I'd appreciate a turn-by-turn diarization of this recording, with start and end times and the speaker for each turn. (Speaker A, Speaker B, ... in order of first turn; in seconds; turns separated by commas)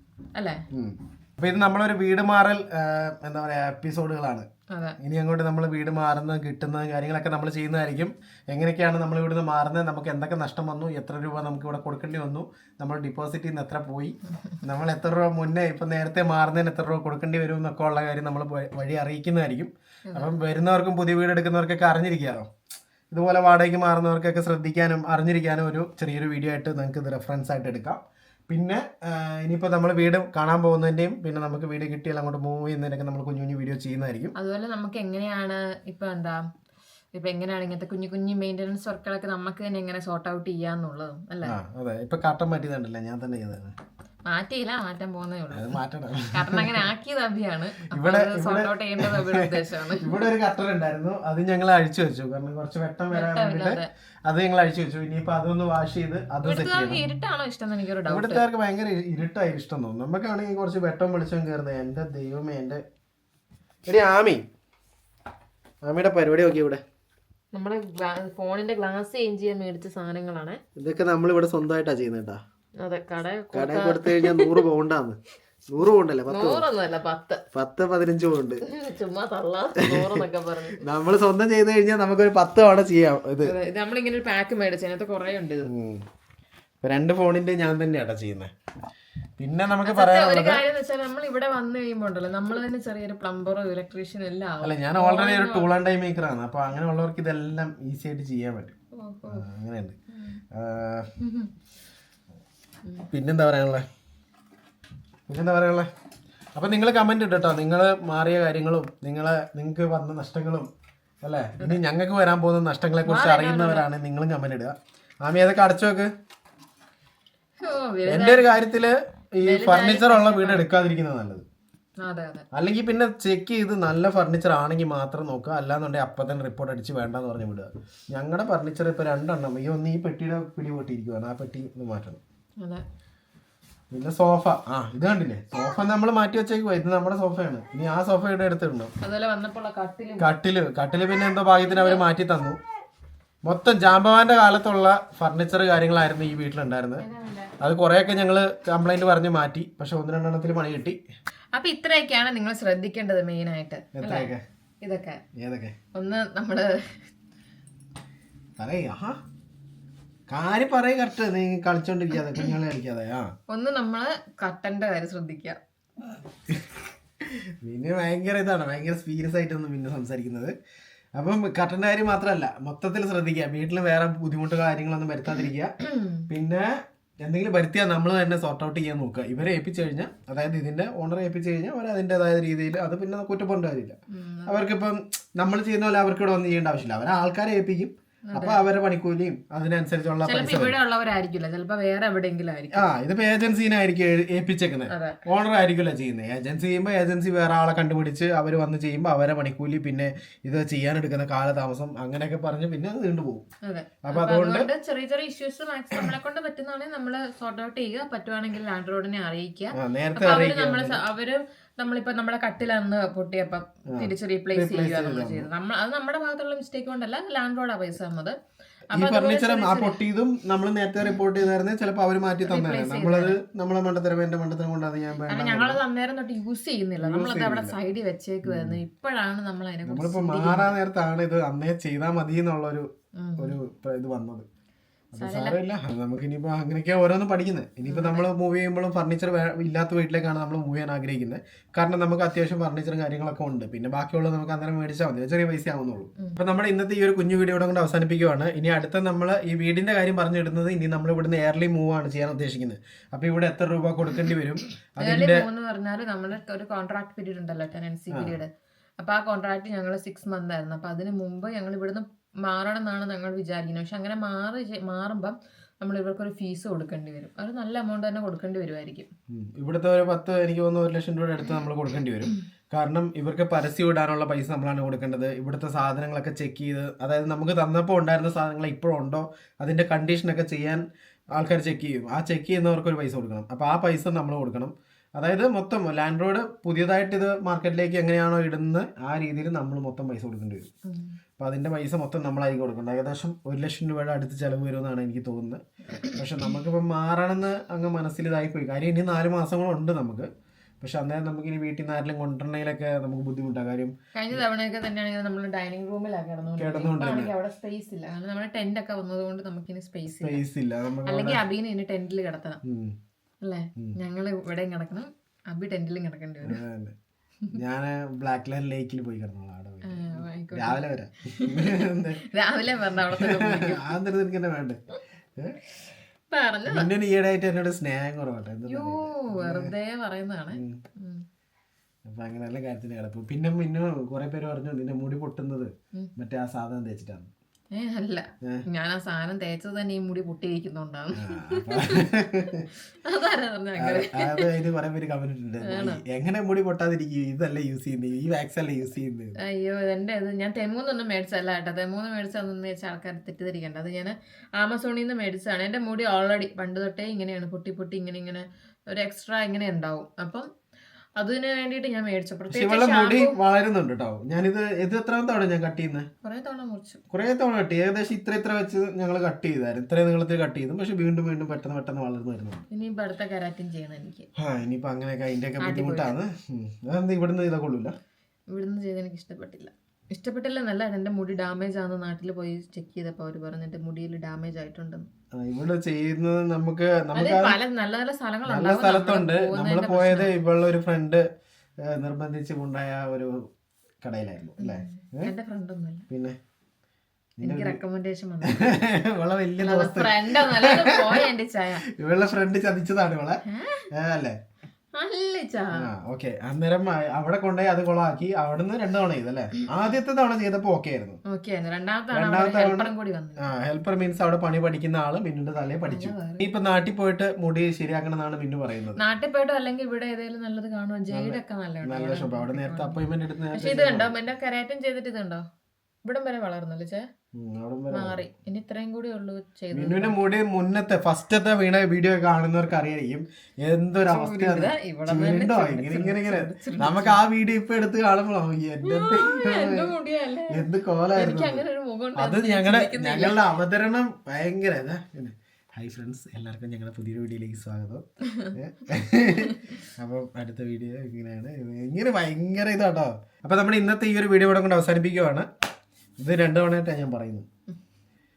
Speaker A: 0.3-0.6, Speaker B: 0.7-4.5, Speaker A: 4.7-5.0, Speaker B: 5.0-22.5, Speaker B: 23.1-34.3, Speaker A: 34.3-36.4, Speaker A: 37.1-41.5, Speaker B: 41.4-43.7, Speaker A: 44.2-45.8, Speaker B: 45.5-46.9, Speaker A: 46.3-50.3, Speaker B: 47.9-57.0, Speaker A: 53.1-53.9, Speaker A: 56.4-58.5, Speaker B: 58.1-62.8, Speaker B: 63.9-64.4, Speaker B: 65.8-66.8, Speaker A: 67.5-70.6, Speaker B: 70.8-72.4, Speaker A: 72.8-74.6, Speaker B: 73.5-75.2, Speaker B: 75.7-76.6, Speaker A: 76.3-77.4, Speaker B: 77.5-78.6, Speaker A: 78.6-80.9, Speaker B: 79.8-80.2, Speaker B: 80.8-83.5, Speaker A: 83.4-85.7, Speaker B: 85.6-86.0, Speaker B: 86.8-88.5, Speaker B: 89.4-90.6, Speaker A: 89.8-95.7, Speaker B: 94.6-98.7, Speaker A: 98.9-99.4, Speaker B: 99.3-100.0, Speaker A: 100.1-100.4, Speaker B: 100.5-101.1, Speaker A: 101.2-101.5, Speaker B: 103.1-103.8, Speaker B: 105.3-105.9, Speaker B: 106.5-110.7, Speaker B: 111.2-116.1, Speaker A: 113.0-113.9, Speaker A: 117.6-118.6, Speaker B: 118.1-121.4, Speaker A: 119.4-120.7, Speaker A: 122.0-122.5, Speaker B: 122.5-132.2, Speaker B: 133.9-138.9, Speaker A: 139.0-140.3, Speaker B: 140.2-142.6, Speaker A: 141.6-142.0, Speaker B: 143.4-147.0, Speaker A: 147.0-147.5, Speaker B: 147.6-151.0, Speaker A: 151.5-155.2, Speaker B: 153.9-154.4, Speaker B: 155.4-155.7, Speaker A: 155.9-157.0, Speaker B: 158.6-159.2, Speaker B: 160.3-163.3, Speaker A: 163.5-165.6, Speaker B: 167.6-170.5, Speaker B: 171.2-175.7, Speaker A: 175.8-176.2, Speaker B: 176.3-176.7, Speaker B: 177.2-190.8, Speaker A: 184.1-184.6, Speaker A: 188.3-188.6, Speaker A: 190.2-192.9, Speaker B: 192.7-203.4, Speaker A: 194.9-195.2, Speaker A: 203.6-218.4, Speaker B: 204.0-204.7, Speaker B: 209.7-211.0, Speaker B: 213.9-215.5, Speaker A: 218.9-220.0, Speaker B: 218.9-225.8, Speaker A: 222.4-223.4, Speaker A: 225.3-230.8, Speaker B: 227.0-227.7, Speaker B: 228.4-228.8, Speaker B: 229.8-232.9, Speaker A: 233.2-233.6, Speaker B: 233.4-234.4, Speaker A: 235.1-235.6, Speaker B: 235.1-255.5, Speaker A: 237.9-238.3, Speaker A: 255.0-269.1, Speaker B: 269.3-280.8, Speaker B: 281.3-290.7, Speaker A: 290.8-291.2, Speaker B: 291.4-295.6, Speaker B: 296.1-300.3, Speaker B: 300.8-304.4, Speaker A: 304.1-310.4, Speaker B: 306.6-307.3, Speaker B: 310.2-311.4, Speaker A: 311.0-312.6, Speaker B: 312.6-312.9, Speaker A: 313.4-316.6, Speaker B: 316.4-316.9, Speaker B: 317.5-322.2, Speaker A: 319.8-323.9, Speaker B: 323.1-324.8, Speaker A: 326.3-326.9, Speaker B: 326.6-329.7, Speaker A: 328.6-331.2, Speaker B: 330.5-330.8, Speaker B: 332.1-337.3, Speaker A: 337.7-342.1, Speaker B: 341.1-342.7, Speaker A: 343.0-344.5, Speaker B: 343.8-349.4, Speaker A: 345.6-346.0, Speaker A: 349.4-360.5, Speaker A: 361.2-363.3, Speaker B: 362.5-366.1, Speaker A: 366.2-367.0, Speaker B: 367.1-372.6, Speaker A: 372.7-374.3, Speaker B: 374.4-377.9, Speaker A: 375.6-376.1, Speaker A: 378.5-385.1, Speaker B: 385.3-387.6, Speaker A: 387.1-390.3, Speaker B: 388.4-391.2, Speaker B: 391.8-393.4, Speaker B: 394.0-395.3, Speaker A: 394.6-396.1, Speaker B: 396.1-396.4, Speaker B: 397.4-397.8, Speaker A: 397.4-398.8, Speaker B: 398.4-401.2, Speaker A: 399.6-401.8, Speaker B: 401.9-404.4, Speaker A: 403.4-403.9, Speaker A: 404.9-405.9, Speaker B: 405.7-411.2, Speaker A: 411.2-413.5, Speaker B: 412.1-419.0, Speaker A: 415.9-416.4, Speaker A: 418.9-423.0, Speaker B: 421.1-424.1, Speaker A: 423.5-425.4, Speaker A: 426.0-427.0, Speaker B: 427.3-428.2, Speaker A: 427.9-430.2, Speaker B: 429.7-439.9, Speaker A: 434.0-437.2, Speaker A: 438.8-443.4, Speaker B: 440.5-441.6, Speaker B: 442.1-455.5, Speaker A: 448.2-448.6, Speaker A: 449.3-449.7, Speaker B: 456.2-457.4